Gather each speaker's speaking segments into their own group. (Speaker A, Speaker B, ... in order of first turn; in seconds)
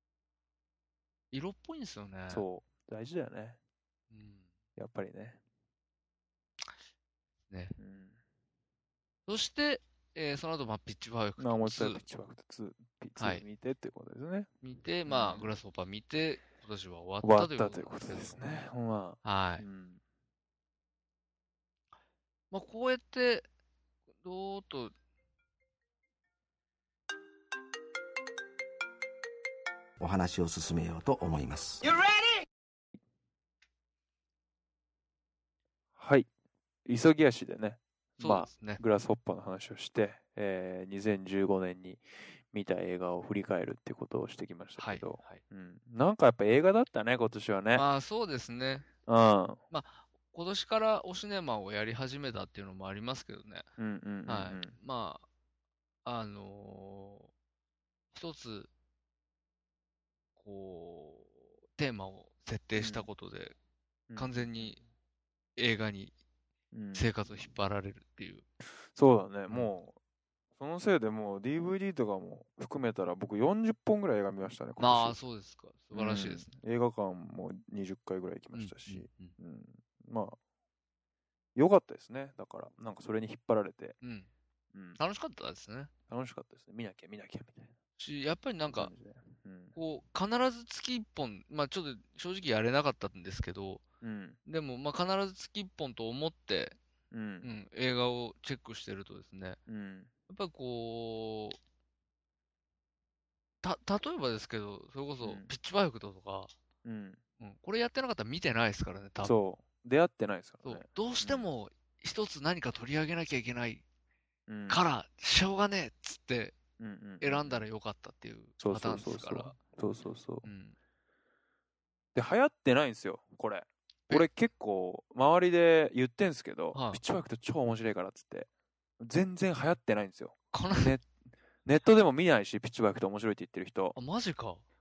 Speaker A: 1.3-2.4, 4.1-4.5, 7.5-7.8, 9.3-12.0, 13.2-13.4, 14.6-18.6, 19.2-19.6, 22.5-23.5, 24.2-24.9, 38.2-38.8, 44.8-45.4, 47.7-48.9, 49.7-53.7, 54.2-55.2, 56.0-57.3, 58.1-58.7, 60.4-63.5, 64.2-64.8, 65.5-66.1, 66.9-68.4, 74.8-76.6, 78.5-79.3, 84.0-84.3, 85.0-85.9, 88.0-88.9, 89.7-93.8, 94.5-96.8, 97.4-99.6, 100.3-101.6, 103.6-106.5, 107.4-109.4, 110.6-113.8, 114.7-116.5, 117.2-119.6, 120.4-120.7, 126.7-127.0, 130.5-130.9, 133.9-134.6
Speaker B: 2.3-3.6, 4.8-5.4, 7.8-8.1, 11.4-14.5, 15.1-15.5, 17.2-20.0, 36.0-36.3, 36.8-47.8, 49.1-49.6, 53.8-54.7, 62.8-63.1, 64.1-64.7, 66.7-67.1, 68.9-70.0, 70.6-75.2, 75.9-80.4, 81.5-84.0, 84.7-85.0, 86.1-87.7, 88.7-89.7, 94.0-94.4, 97.1-97.5, 99.7-100.1, 105.2-105.5, 106.8-107.2, 109.2-111.5, 114.5-114.8, 116.8-117.6, 118.6-120.5, 122.1-128.5, 129.0-131.1, 131.6-133.9
Speaker C: 30.0-31.9